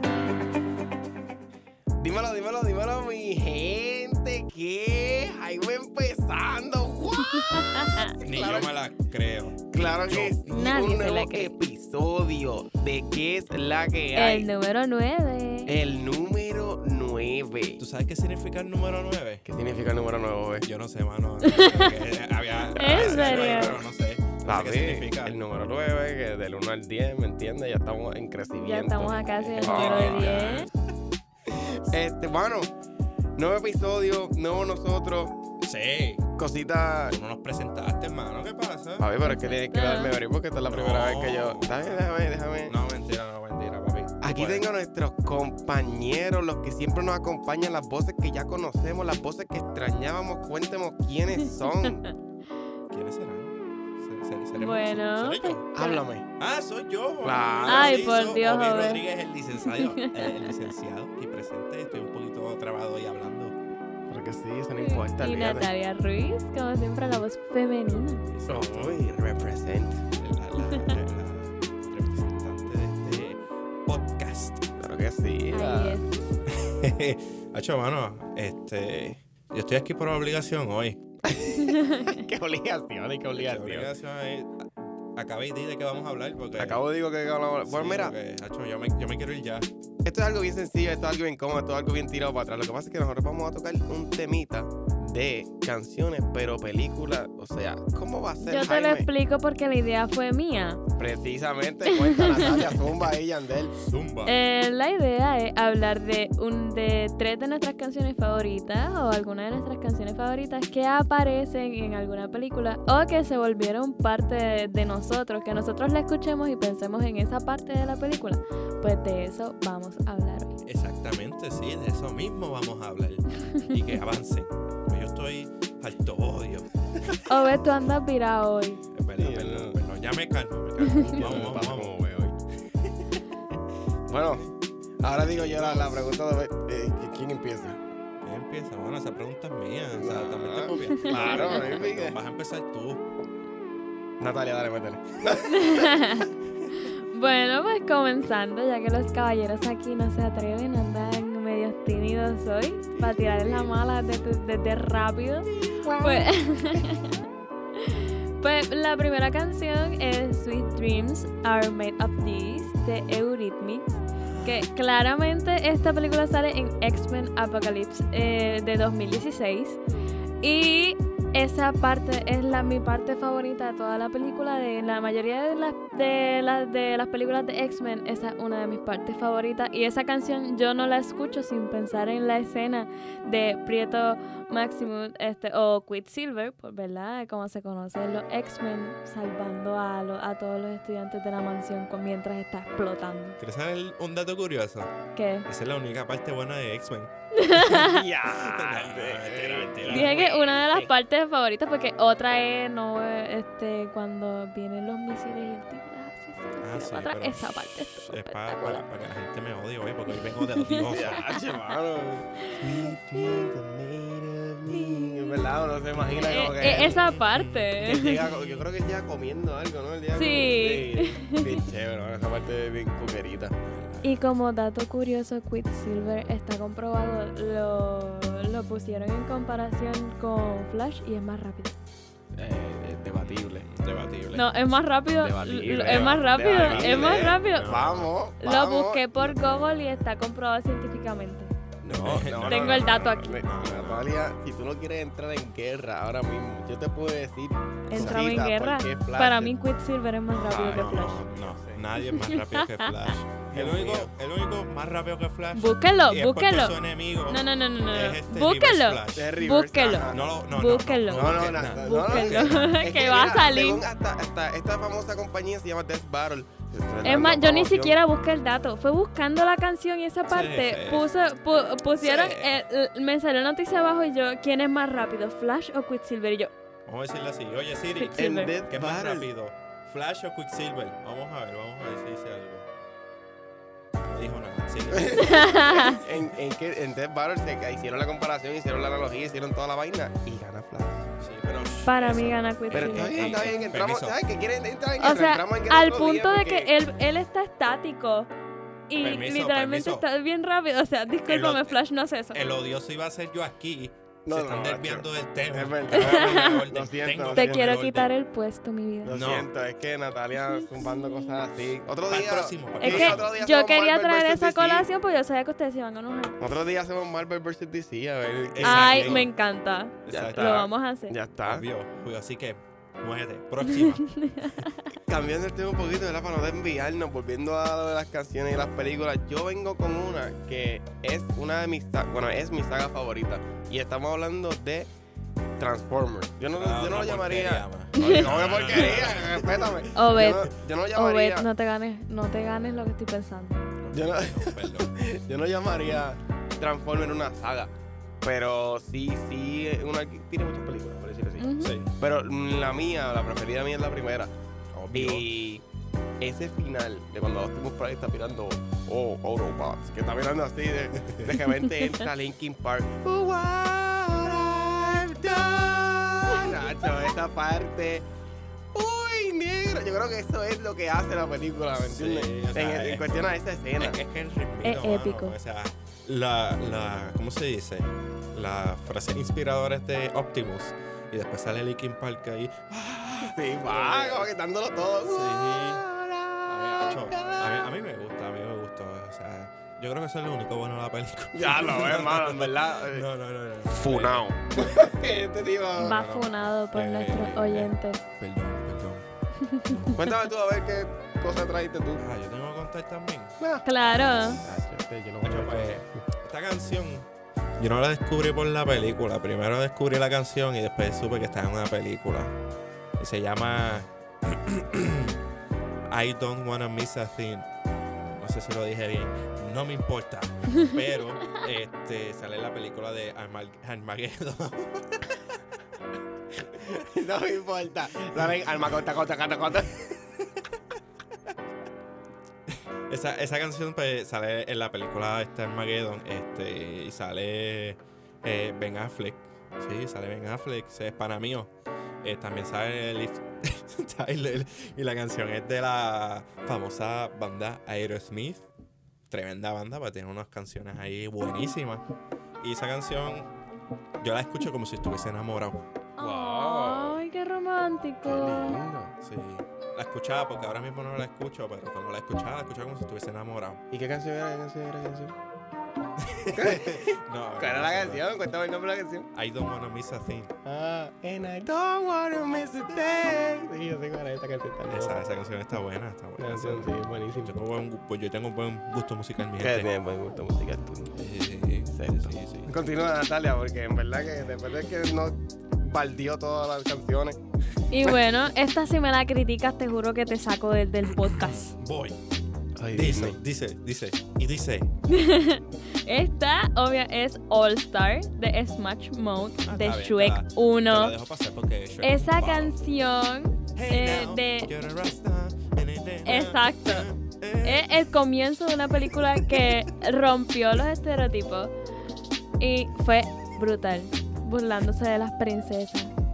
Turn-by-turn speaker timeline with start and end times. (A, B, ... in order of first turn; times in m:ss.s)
0:02.0-0:08.7 A
0:07.1-0:08.2 B
0:08.2-0:10.4 C
0:09.7-0:14.5 A
0:10.5-0:11.5 B
0:14.1-0:15.8 B
0:15.7-0:17.8 A
0:17.8-0:19.4 C
0:19.4-0:20.7 A
0:20.6-0:25.4 C
0:21.4-0:22.0 B
0:22.7-0:23.8 A
0:22.8-0:23.8 B
0:24.4-0:30.5 A
0:28.6-0:30.7 B
0:29.4-0:30.7 C
0:31.4-0:32.7 A
0:33.4-0:35.4 A
0:35.6-0:36.3 C
0:36.4-0:37.2 A
0:37.1-0:39.1 C
0:39.0-0:42.8 A
0:39.2-0:40.1 B
0:40.7-0:44.7 C
0:44.2-0:52.1 A
0:51.6-0:51.9 B
0:52.9-0:55.7 C
0:54.5-0:56.0 B
0:55.7-0:56.3 A
0:56.4-1:03.6 C
0:57.2-0:58.0 A
0:57.7-0:59.0 B
0:59.6-1:00.5 B
1:04.1-1:05.7 A
1:04.8-1:08.2 B
1:08.3-1:09.0 C
1:08.5-1:10.0 A
1:10.1-1:14.8 C
1:14.8-1:16.0 A
1:15.5-1:16.4 B
1:16.5-1:21.0 C
1:21.2-1:23.9 A
1:21.5-1:22.2 B
1:23.3-1:26.8 C
1:26.5-1:28.1 A
1:27.6-1:29.7 C
1:30.0-1:39.1 A
1:38.4-1:40.8 B
1:41.0-1:43.7 A
1:41.9-1:42.8 B
1:43.7-1:44.4 C
1:44.2-2:00.6 B
2:00.6-2:07.1 C
2:07.2-2:08.8 B
2:08.9-2:11.9 C
2:09.2-2:09.8 A
2:11.0-2:12.4 A
2:14.1-2:14.4 A
2:15.0-2:17.8 A
2:15.0-2:16.1 C
2:18.2-2:23.0 C
2:20.0-2:22.2 A
2:21.1-2:21.6 B
2:24.2-2:26.1 A
2:25.4-2:37.1 B
2:33.2-2:33.7 A
2:35.5-2:36.8 A
2:37.8-2:49.8 B
2:44.2-2:44.6 C
2:50.4-3:13.4 B
3:13.4-3:14.9 C
3:15.1-3:15.5 B
3:15.5-3:20.6 C
3:17.3-3:18.0 B
3:17.6-3:20.9 A
3:19.9-3:28.8 B
3:26.6-3:31.3 C
3:30.1-3:31.4 B
3:30.9-3:37.1 A
3:32.4-3:33.5 B
3:34.6-3:35.5 B
3:36.1-3:38.2 B
3:36.7-3:38.7 C
3:37.8-3:43.6 A
3:40.1-3:41.6 B
3:43.6-3:44.2 C
3:44.0-3:51.7 B
3:52.4-3:53.7 A
3:53.2-3:54.7 C
3:54.3-3:57.8 B
3:55.1-3:59.4 A
3:55.9-3:58.1 C
3:58.4-4:01.5 B
4:01.8-4:09.5 A
4:01.8-4:04.1 C
4:02.5-4:03.4 B
4:07.9-4:11.2 B
4:07.9-4:08.4 C
4:10.3-4:11.8 A
4:10.6-4:19.3 C
4:12.0-4:13.1 B
4:13.5-4:14.1 A
4:15.5-4:23.8 B
4:19.1-4:20.2 A
4:20.0-4:22.8 C
4:21.1-4:28.0 A
4:27.0-4:36.5 B
4:30.3-4:31.1 C
4:32.0-4:32.6 C
4:36.8-4:42.7 C
4:38.0-4:38.5 B
4:38.2-4:39.3 A
4:44.0-4:46.2 C
4:44.9-4:51.1 A
4:45.2-4:46.0 B
4:51.2-4:54.2 C
4:51.8-4:53.7 B
4:52.7-4:56.7 A
4:55.0-4:58.3 B
4:58.9-5:02.4 B
4:59.0-5:00.0 C
5:01.2-5:01.8 C
5:02.3-5:08.1 C
5:04.2-5:07.7 A
5:05.9-5:06.6 B
5:07.3-5:09.2 B
5:09.0-5:14.9 A
5:09.1-5:09.5 C
5:12.1-5:13.3 C
5:12.8-5:16.4 B
5:16.4-5:19.2 A
5:18.5-5:19.3 C
5:18.6-5:21.1 B
5:20.0-5:20.7 C
5:20.1-5:21.7 A
5:21.4-5:24.0 C
5:23.7-5:24.9 B
5:24.9-5:34.9 A
5:35.6-5:41.4 A
5:36.5-5:39.9 C
5:37.9-5:38.8 B
5:39.9-5:43.6 B
5:43.8-5:44.9 C
5:43.9-5:47.7 A
5:48.2-5:54.3 A
5:51.4-5:51.8 B
5:51.6-5:51.9 C
5:54.7-5:55.3 C
5:54.9-5:55.6 A
5:56.2-6:08.0 A
6:01.1-6:01.3 C
6:08.7-6:14.0 A
6:11.7-6:24.3 C
6:14.6-6:15.4 B
6:23.2-6:27.7 A
6:25.0-6:25.8 C
6:26.4-6:34.9 C
6:31.3-6:33.0 A
6:33.6-6:36.0 A
6:35.8-6:39.1 C
6:35.8-6:38.0 B
6:39.4-6:40.0 B
6:39.6-6:40.0 C
6:39.9-6:42.0 A
6:42.0-6:44.6 C
6:43.4-6:43.6 A
6:43.6-6:44.4 B
6:44.4-6:45.9 A
6:45.2-6:52.4 C
6:53.0-6:55.2 C
6:55.9-6:57.5 C
6:58.0-7:05.2 C
7:06.5-7:09.8 A
7:12.5-7:21.5 C
7:22.0-7:28.4 C
7:29.1-7:31.8 C
7:32.4-7:33.3 C
7:34.0-7:35.6 C
7:36.0-7:38.6 B
7:36.0-7:37.0 A
7:38.0-7:38.9 A
7:39.0-7:43.6 C
7:43.7-7:45.1 A
7:46.0-7:48.0 C
7:46.3-7:49.1 A
7:49.1-7:50.3 C
7:50.4-7:55.0 A
7:54.7-7:59.7 C
7:56.2-7:57.3 A
7:59.4-8:00.9 A
8:00.9-8:02.5 C
8:01.7-8:07.2 A
8:07.7-8:11.5 B
8:11.1-8:12.0 C
8:12.6-8:13.2 A
8:12.7-8:14.7 C
8:14.9-8:20.9 B
8:19.4-8:22.6 C
8:21.8-8:24.5 B
8:23.5-8:27.7 C
8:26.0-8:26.9 B
8:27.4-8:31.5 B
8:28.9-8:29.6 C
8:32.4-8:35.9 B